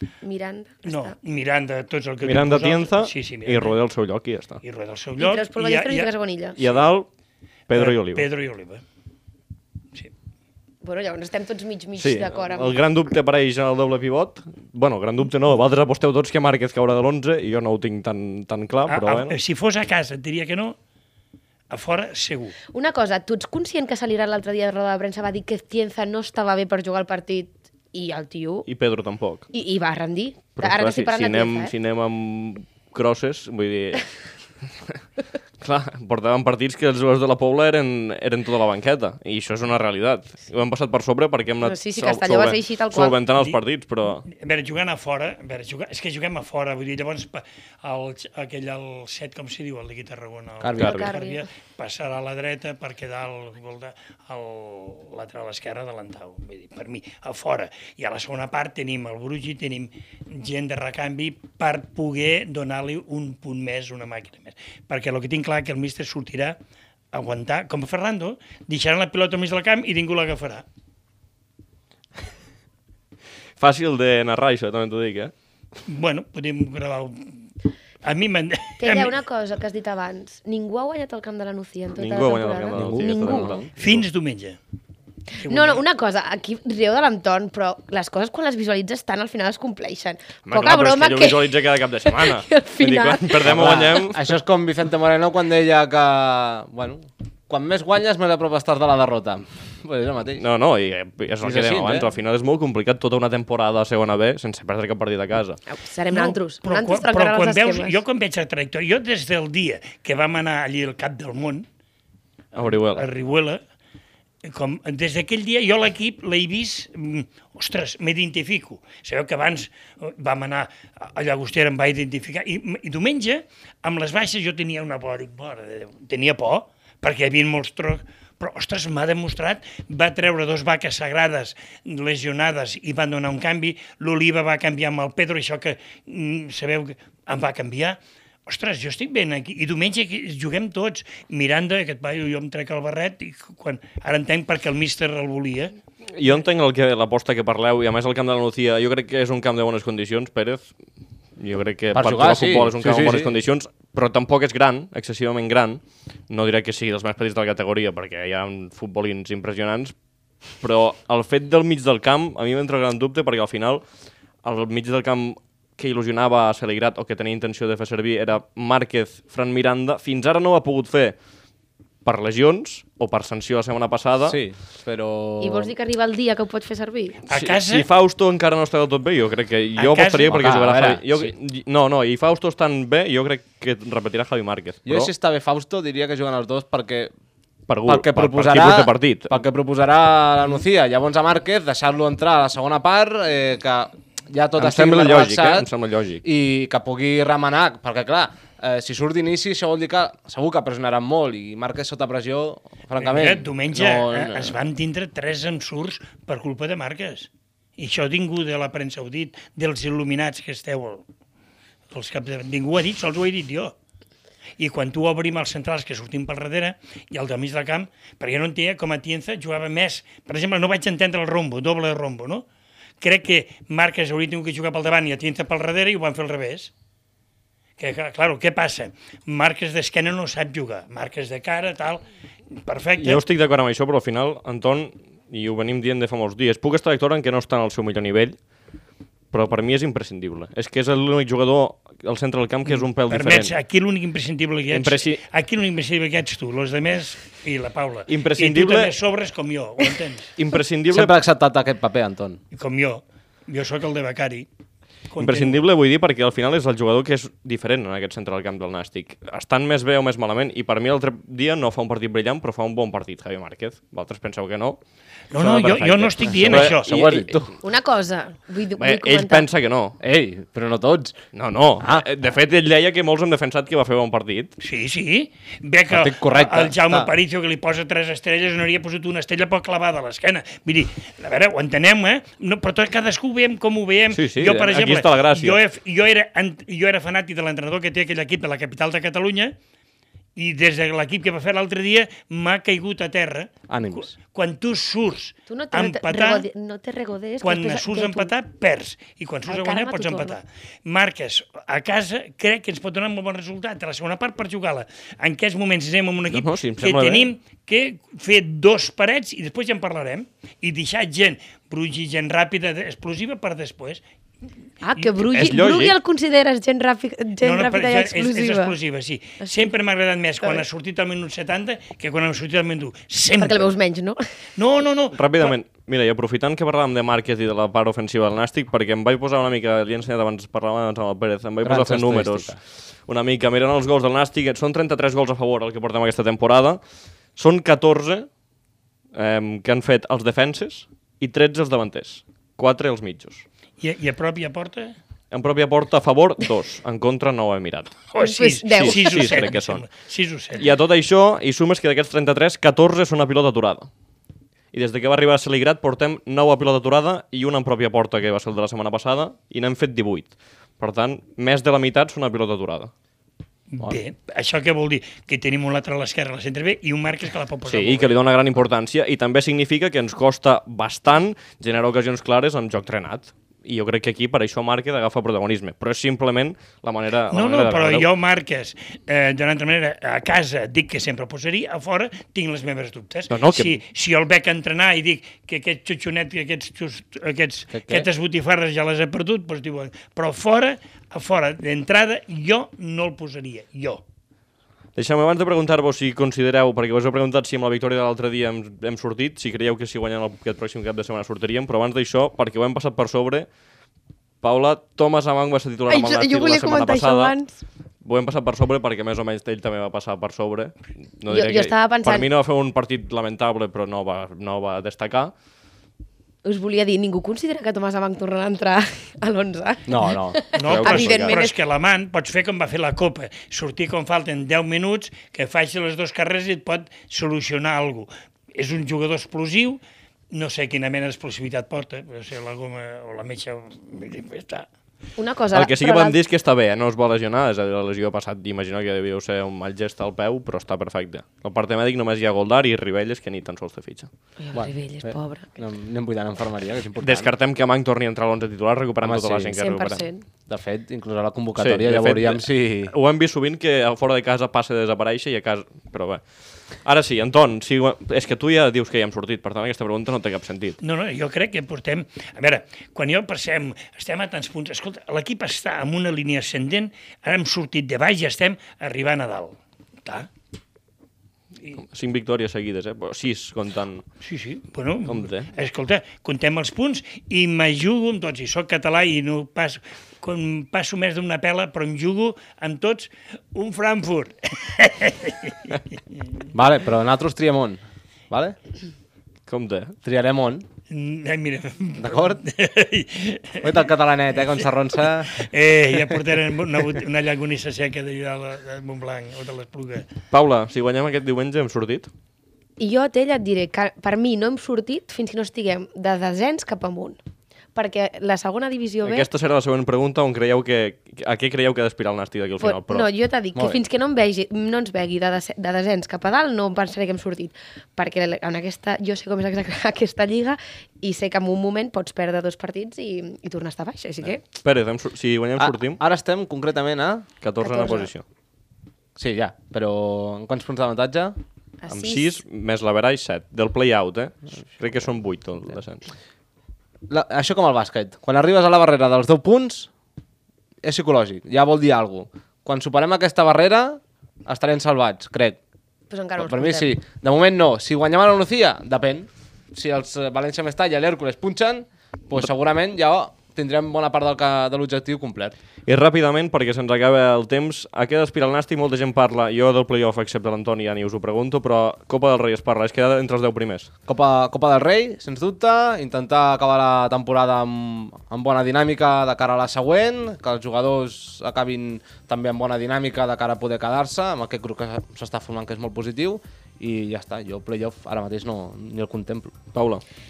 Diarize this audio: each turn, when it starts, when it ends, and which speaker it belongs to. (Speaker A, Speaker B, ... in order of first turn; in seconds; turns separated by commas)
Speaker A: 0.2-1.1, Speaker B: 0.8-3.8, Speaker C: 2.2-4.6, Speaker B: 4.6-6.1, Speaker A: 5.2-6.6, Speaker C: 6.5-7.1, Speaker C: 7.7-8.3, Speaker B: 7.7-8.8, Speaker A: 10.8-12.8, Speaker C: 12.0-19.4, Speaker B: 18.9-20.8, Speaker B: 21.7-22.6, Speaker A: 22.7-28.7, Speaker C: 28.6-29.5, Speaker A: 29.5-31.7, Speaker C: 30.6-34.1, Speaker C: 35.6-44.3, Speaker A: 41.6-43.2, Speaker B: 44.3-66.6, Speaker D: 50.6-50.9, Speaker C: 50.8-51.1, Speaker A: 50.8-51.5, Speaker B: 67.1-70.7, Speaker C: 73.6-75.3, Speaker B: 75.8-77.4, Speaker B: 78.0-79.2, Speaker A: 78.8-83.5, Speaker C: 82.0-84.0, Speaker D: 82.7-83.7, Speaker B: 83.8-84.6, Speaker B: 85.4-85.8, Speaker A: 85.4-93.8, Speaker C: 90.5-94.2, Speaker D: 93.4-100.4, Speaker C: 100.4-105.6, Speaker D: 101.4-102.1, Speaker A: 105.7-108.0, Speaker B: 106.1-111.7, Speaker C: 112.5-113.1, Speaker B: 112.5-113.6, Speaker B: 114.4-145.7, Speaker C: 146.1-150.7, Speaker C: 151.4-159.9, Speaker D: 151.9-153.3, Speaker C: 160.6-163.8, Speaker C: 164.4-171.2, Speaker C: 172.0-174.4, Speaker D: 174.3-175.7, Speaker A: 175.4-177.2, Speaker B: 177.2-177.9, Speaker C: 177.3-185.1, Speaker B: 179.8-180.4, Speaker D: 180.3-181.3, Speaker D: 184.8-187.1, Speaker C: 187.7-189.4, Speaker D: 187.9-195.7, Speaker C: 194.6-196.2, Speaker D: 196.2-204.6, Speaker B: 203.0-211.0, Speaker B: 211.9-213.7, Speaker B: 214.6-222.4, Speaker B: 223.0-226.7, Speaker B: 227.8-232.1, Speaker B: 232.6-233.2, Speaker C: 233.0-238.4, Speaker C: 239.3-243.6, Speaker B: 242.7-250.3, Speaker C: 244.7-245.2, Speaker C: 248.1-248.9, Speaker C: 250.3-251.2, Speaker D: 250.9-252.4, Speaker B: 252.5-254.5, Speaker B: 255.1-255.6, Speaker C: 255.2-264.8, Speaker B: 265.3-266.9, Speaker C: 265.4-267.5, Speaker D: 265.6-267.6, Speaker A: 267.6-269.5, Speaker C: 268.8-270.0, Speaker D: 270.0-271.1, Speaker C: 271.3-274.5, Speaker B: 274.6-289.5, Speaker D: 275.9-277.1, Speaker C: 284.1-285.6, Speaker B: 290.4-296.4, Speaker D: 293.7-294.1, Speaker A: 295.5-298.3, Speaker B: 297.4-314.0, Speaker A: 299.4-300.4, Speaker C: 306.3-307.3, Speaker A: 314.8-318.7, Speaker B: 315.0-315.5, Speaker C: 315.3-315.9, Speaker B: 317.4-323.7, Speaker A: 319.4-319.7, Speaker A: 323.4-324.2, Speaker B: 324.6-325.5, Speaker C: 325.1-332.6, Speaker D: 331.6-332.6, Speaker C: 333.1-336.8, Speaker C: 337.4-338.3, Speaker C: 339.1-343.4, Speaker B: 343.8-344.9, Speaker C: 345.3-348.0, Speaker B: 348.1-350.7, Speaker A: 348.2-349.4, Speaker C: 348.7-349.9, Speaker C: 350.6-353.9, Speaker C: 354.7-362.9, Speaker B: 363.7-368.1, Speaker C: 367.7-378.1, Speaker B: 377.3-394.0, Speaker C: 383.3-383.8, Speaker D: 387.7-388.1, Speaker C: 394.9-403.5, Speaker C: 404.4-407.3, Speaker A: 405.9-407.6, Speaker C: 408.0-415.3, Speaker A: 411.3-412.3, Speaker A: 416.4-421.5, Speaker D: 419.9-420.4, Speaker B: 420.5-434.7, Speaker C: 420.6-421.4, Speaker A: 435.2-436.2, Speaker C: 435.5-444.1, Speaker A: 444.4-445.6, Speaker D: 444.5-447.3, Speaker C: 447.0-450.1, Speaker D: 449.0-449.5, Speaker A: 449.6-450.3, Speaker D: 450.5-452.9, Speaker C: 451.6-456.2, Speaker C: 456.8-460.8, Speaker B: 460.8-470.3, Speaker C: 471.7-474.0, Speaker B: 474.2-486.0, Speaker C: 475.1-475.5, Speaker D: 486.5-488.6, Speaker C: 489.5-489.9, Speaker D: 490.0-490.6, Speaker B: 490.9-493.8, Speaker D: 492.0-492.4, Speaker D: 493.6-495.5, Speaker B: 495.2-500.1, Speaker C: 500.3-502.1, Speaker A: 502.8-507.2, Speaker A: 507.7-509.3, Speaker C: 509.0-513.1, Speaker A: 512.6-524.4, Speaker D: 513.5-513.8, Speaker C: 524.4-526.0, Speaker D: 525.6-527.3, Speaker C: 527.4-528.2, Speaker A: 527.6-528.1, Speaker D: 529.1-531.4, Speaker A: 531.8-532.4, Speaker C: 531.9-536.0, Speaker D: 537.1-539.9, Speaker D: 540.8-545.6, Speaker A: 546.1-546.9, Speaker D: 546.4-555.5, Speaker C: 555.9-563.9, Speaker D: 564.1-579.5, Speaker C: 579.7-580.0